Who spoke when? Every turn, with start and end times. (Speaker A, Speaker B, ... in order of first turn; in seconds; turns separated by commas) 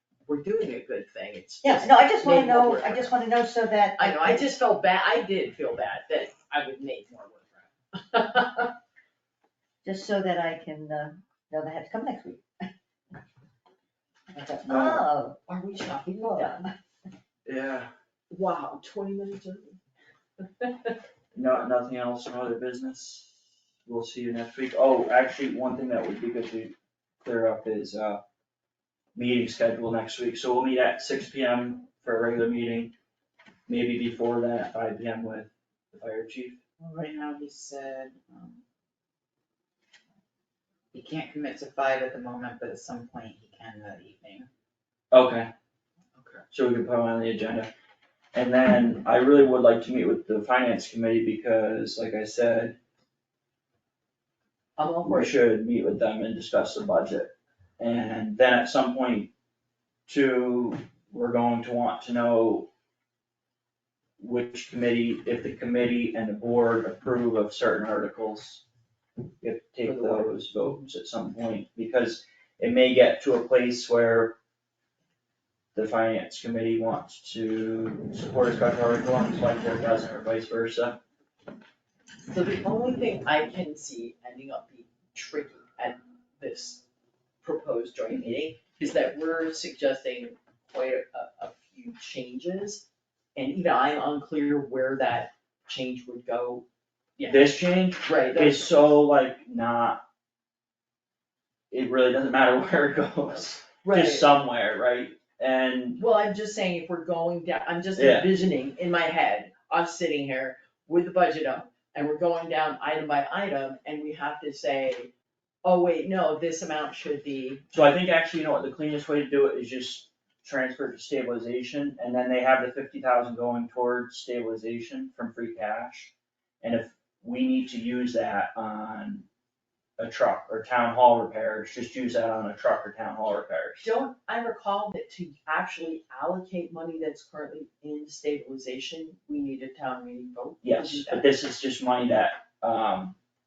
Speaker A: 0.3-3.1, Speaker B: 1.6-4.5, Speaker A: 4.0-8.7, Speaker B: 9.8-12.5, Speaker B: 14.3-15.4, Speaker C: 14.7-15.1, Speaker A: 15.5-16.7, Speaker B: 16.1-16.7, Speaker C: 17.5-17.9, Speaker A: 18.3-19.8, Speaker A: 20.6-20.9, Speaker C: 21.3-28.2, Speaker C: 29.1-32.9, Speaker C: 33.7-36.6, Speaker D: 36.8-38.6, Speaker D: 40.9-44.5, Speaker C: 45.1-45.5, Speaker C: 46.5-47.7, Speaker C: 48.3-52.8, Speaker A: 54.8-55.4, Speaker C: 55.0-59.3, Speaker C: 60.1-62.7, Speaker C: 64.2-68.6, Speaker C: 69.4-74.4, Speaker A: 69.8-70.4, Speaker C: 75.7-81.0, Speaker A: 82.3-86.8, Speaker A: 87.4-96.7, Speaker A: 97.2-99.0, Speaker C: 97.2-100.0, Speaker C: 101.7-106.0, Speaker A: 103.8-104.3, Speaker A: 106.0-115.1, Speaker C: 108.0-108.3, Speaker A: 115.6-117.7, Speaker C: 117.7-129.2, Speaker C: 130.0-133.9, Speaker A: 133.8-141.3, Speaker C: 140.6-143.2